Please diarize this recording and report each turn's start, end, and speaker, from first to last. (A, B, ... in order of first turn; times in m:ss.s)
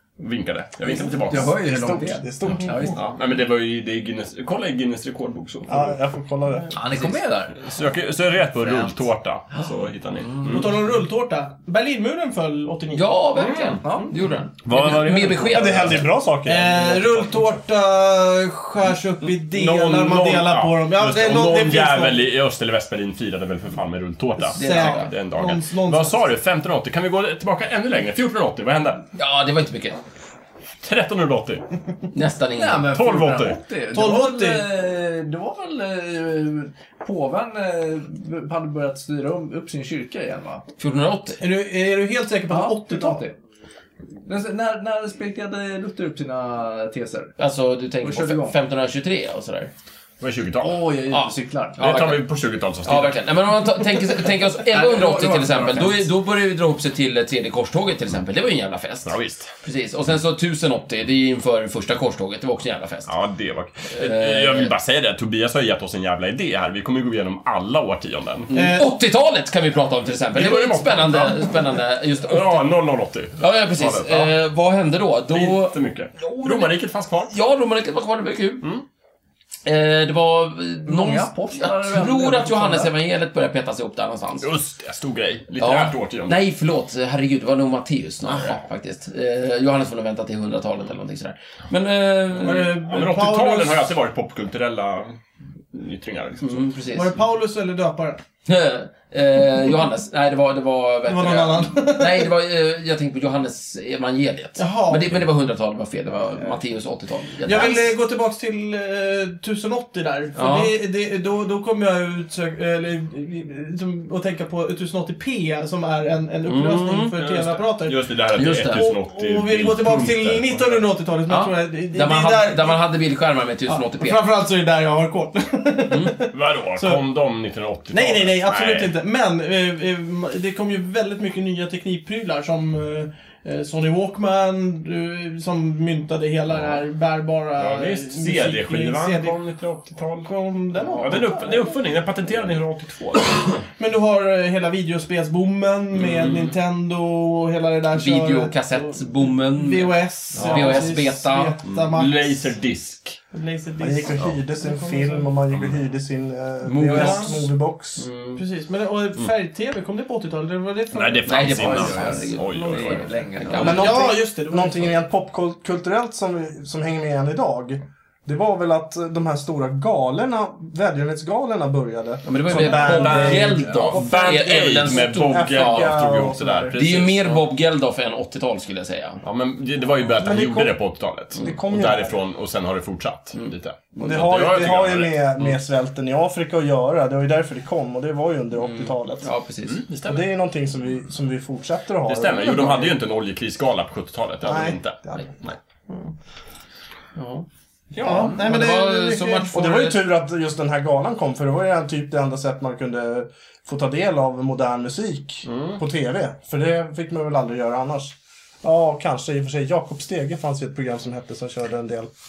0:00.2-0:01.6 A
0:00.9-0:03.1 B
0:01.3-0:03.0 C
0:02.9-0:06.0 A
0:05.7-0:06.8 C
0:06.7-0:07.7 B
0:07.6-0:10.8 A
0:08.6-0:08.9 B
0:10.4-0:13.1 D
0:12.9-0:16.1 E
0:13.3-0:13.8 A
0:13.8-0:14.1 B
0:14.6-0:16.0 A
0:15.5-0:17.6 C
0:16.4-0:22.2 D
0:19.4-0:29.0 A
0:24.4-0:26.3 D
0:24.5-0:25.1 E
0:29.2-0:30.0 E
0:30.8-0:31.6 A
0:32.1-0:32.9 E
0:32.5-0:40.6 B
0:32.9-0:33.6 A
0:33.9-0:34.7 D
0:40.8-0:41.4 E
0:41.4-0:43.2 D
0:42.5-0:43.4 B
0:44.2-0:47.3 B
0:47.4-0:49.7 E
0:48.0-0:48.6 B
0:50.2-0:50.8 A
0:50.6-0:51.9 B
0:51.1-0:52.3 E
0:51.8-0:53.2 A
0:52.8-1:03.1 E
0:54.6-0:56.0 B
0:59.0-0:59.5 A
1:03.1-1:08.5 A
1:03.9-1:04.7 E
1:08.5-1:12.6 E
1:08.5-1:08.8 D
1:10.3-1:11.6 A
1:12.2-1:14.3 A
1:13.4-1:16.7 E
1:15.3-1:17.3 A
1:17.3-1:18.7 E
1:19.6-1:24.5 E
1:20.8-1:22.9 B
1:24.4-1:26.4 A
1:25.6-1:32.7 E
1:28.2-1:28.6 A
1:32.4-1:33.9 D
1:32.4-1:35.2 A
1:35.7-1:36.7 A
1:36.4-1:37.1 E
1:36.9-1:38.2 D
1:38.4-1:47.9 E
1:41.0-1:42.3 D
1:44.6-1:45.2 D
1:47.4-1:58.0 D
1:50.4-1:50.7 E
1:56.4-1:57.2 E
1:57.2-2:00.8 A
1:58.3-1:58.8 E
1:58.7-2:02.8 D
2:01.3-2:04.2 E
2:03.7-2:07.0 D
2:05.9-2:06.2 E
2:06.3-2:08.9 A
2:07.9-2:19.4 D
2:16.5-2:16.8 A
2:17.6-2:20.3 A
2:20.2-2:21.7 D
2:20.9-2:23.6 A
2:23.8-2:32.5 D
2:25.9-2:26.5 A
2:27.9-2:31.5 E
2:30.3-2:30.9 A
2:31.6-2:33.2 A
2:33.3-2:35.3 D
2:33.8-2:38.1 C
2:35.5-2:35.8 A
2:36.6-2:38.4 E
2:36.8-2:37.3 D
2:38.4-2:42.2 D
2:40.9-2:43.0 A
2:41.2-2:44.1 E
2:41.5-2:43.9 B
2:43.6-2:45.0 D
2:43.6-2:56.8 C
2:52.2-2:55.9 E
2:52.5-2:57.4 A
2:53.2-2:53.8 B
2:56.7-2:59.2 E
2:59.2-3:05.5 A
3:00.2-3:00.8 C
3:01.3-3:02.2 C
3:03.3-3:04.2 E
3:04.0-3:09.3 C
3:08.6-3:09.8 E
3:09.6-3:10.3 A
3:10.0-3:13.0 C
3:12.0-3:15.6 A
3:14.4-3:15.3 C
3:17.2-3:17.4 E
3:17.9-3:18.4 A
3:18.0-3:19.5 D
3:18.2-3:20.0 E
3:19.5-3:32.1 C
3:25.5-3:25.8 A